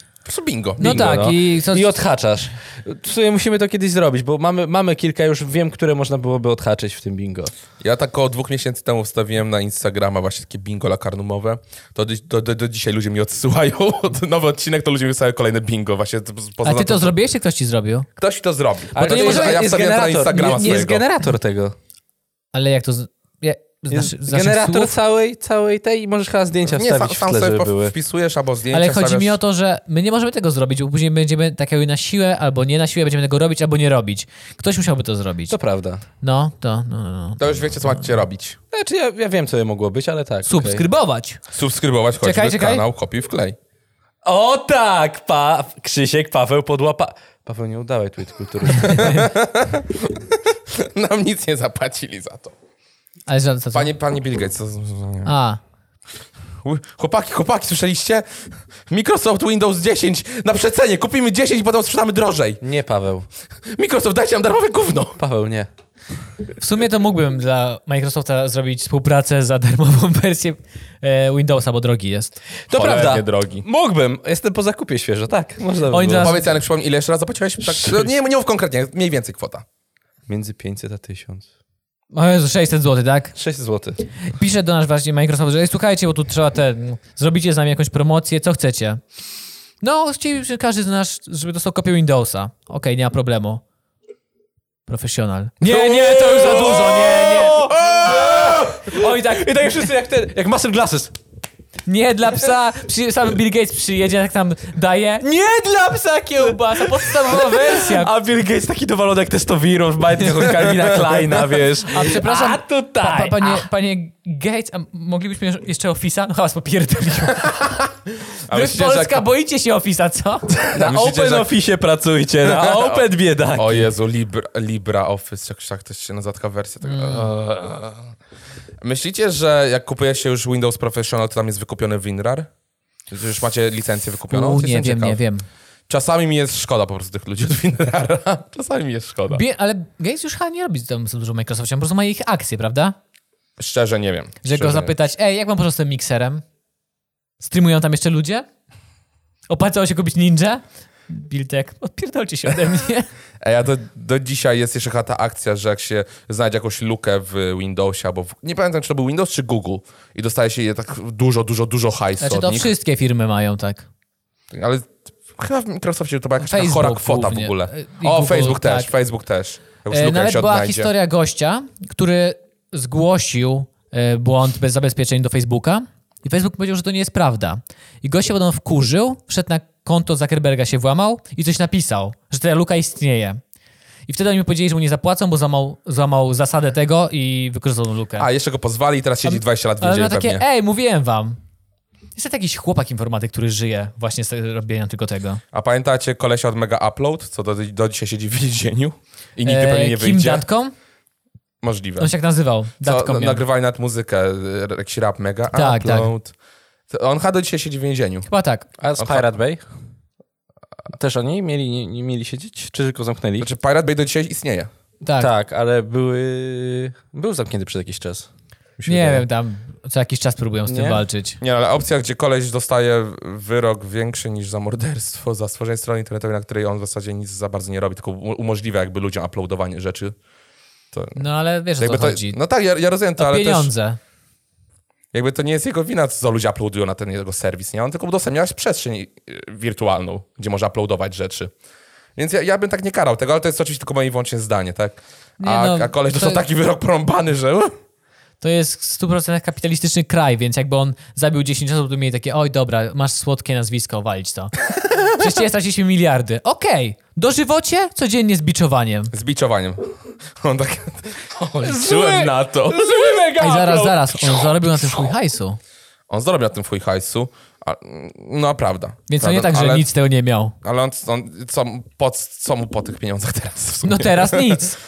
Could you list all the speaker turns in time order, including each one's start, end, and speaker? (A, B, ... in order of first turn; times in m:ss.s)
0:00.2-0:00.9 A
0:00.8-0:02.0 B
0:00.8-0:07.5 C
0:07.8-0:17.2 A
0:16.6-0:18.1 B
0:18.2-0:21.0 A
0:19.0-0:21.8 C
0:19.0-0:19.8 B
0:20.3-0:20.9 B
0:22.5-0:24.9 B
0:23.9-0:27.9 C
0:26.7-0:29.4 A
0:28.7-0:35.6 B
0:35.5-0:36.0 C
0:36.2-0:37.4 B
0:37.4-0:38.6 A
0:38.7-0:40.8 C
0:40.5-0:41.4 B
0:41.5-0:43.6 A
0:42.2-0:42.8 B
0:44.2-0:49.2 C
0:48.8-0:52.5 A
0:53.3-0:53.9 B
0:53.7-0:55.3 A
0:55.3-0:55.6 B
0:56.6-1:02.6 A
1:02.6-1:03.3 C
1:03.7-1:05.2 A
1:05.2-1:05.7 C
1:06.6-1:12.4 B
1:12.7-1:16.4 C
1:12.7-1:13.6 A
1:15.9-1:16.5 B
1:16.2-1:19.6 A
1:20.3-1:21.5 C
1:22.1-1:23.4 B
1:23.4-1:24.0 C
1:24.3-1:29.0 B
1:29.8-1:33.6 B
1:34.9-1:39.9 B
1:35.6-1:41.1 C
1:36.2-1:36.8 A
1:41.9-1:48.1 B
1:46.5-1:53.6 C
1:50.6-1:51.3 A
1:51.9-1:57.8 B
1:58.5-1:59.3 A
1:58.5-2:00.6 B
2:00.6-2:01.5 A
2:00.7-2:03.9 C
2:02.4-2:08.1 A
2:06.8-2:07.3 B
2:08.8-2:12.5 A
2:13.1-2:15.2 A
2:14.3-2:15.4 B
2:15.9-2:19.4 A
2:19.3-2:23.0 B
2:23.6-2:25.0 A
2:24.4-2:26.4 B
2:27.4-2:28.5 B
2:29.5-2:33.1 B
2:33.4-2:42.7 A
2:42.2-2:43.9 B
2:44.5-2:50.9 A
2:46.4-2:48.9 B
2:49.9-3:03.4 B
3:04.1-3:08.3 B
3:08.2-3:10.4 A
3:09.2-3:11.4 B
3:12.2-3:15.4 B
3:15.5-3:20.5 A
3:19.4-3:20.7 B
3:21.6-3:22.1 A
3:22.0-3:23.4 B
3:22.8-3:26.3 A
3:25.5-3:26.1 B
3:26.9-3:28.3 A
3:28.3-3:28.7 B
3:28.8-3:29.6 C
3:29.0-3:29.3 A
3:30.9-3:33.5 C
3:33.4-3:34.7 A
3:35.0-3:35.3 B
3:35.2-3:38.3 C
3:38.8-3:39.2 C
3:38.9-3:41.4 B
3:40.7-3:41.0 C
3:41.4-3:50.2 A
3:50.9-3:51.2 A
3:51.2-3:52.4 B
3:51.8-3:53.7 A
3:53.2-3:54.0 B
3:55.1-4:01.5 A
4:02.2-4:07.7 A
4:05.4-4:06.4 B
4:08.4-4:19.1 B
4:19.1-4:23.0 A
4:21.6-4:24.2 C
4:23.4-4:25.6 B
4:24.7-4:25.1 A
4:26.1-4:29.9 A
4:29.1-4:30.6 B
4:30.6-4:34.6 A
4:33.8-4:34.8 B